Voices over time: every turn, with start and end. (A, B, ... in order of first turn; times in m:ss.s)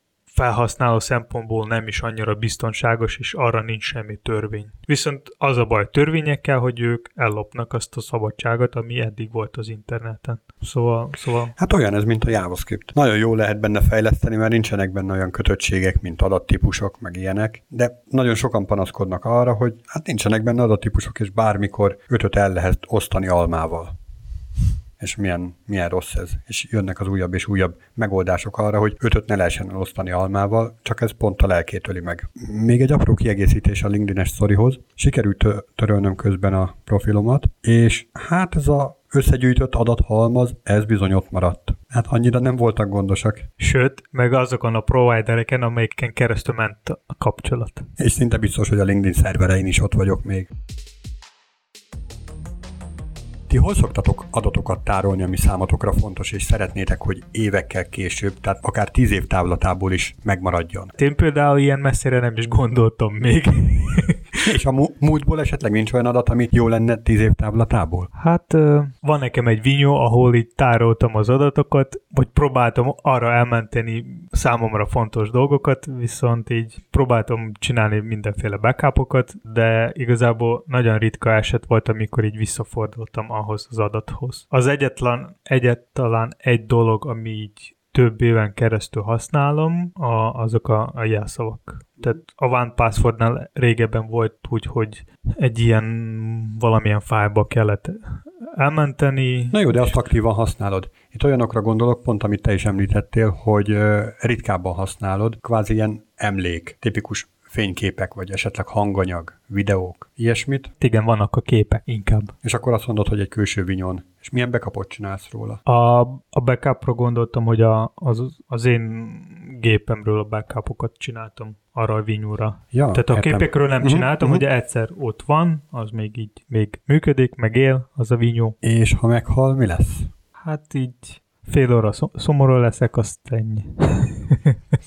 0:00.3-0:11.5 A
0:11.5-0:24.0 B
0:25.0-0:43.5 B
0:43.6-0:47.9 A
0:48.0-0:50.5 B
0:53.5-1:00.9 B
1:01.0-1:04.2 A
1:04.4-1:08.1 B
1:08.1-1:39.9 A
1:39.5-1:50.7 B
1:50.8-1:52.3 A
1:52.4-1:55.6 B
1:55.6-2:08.5 A
2:02.7-2:04.4 B
2:08.6-2:10.1 B
2:10.4-2:14.6 A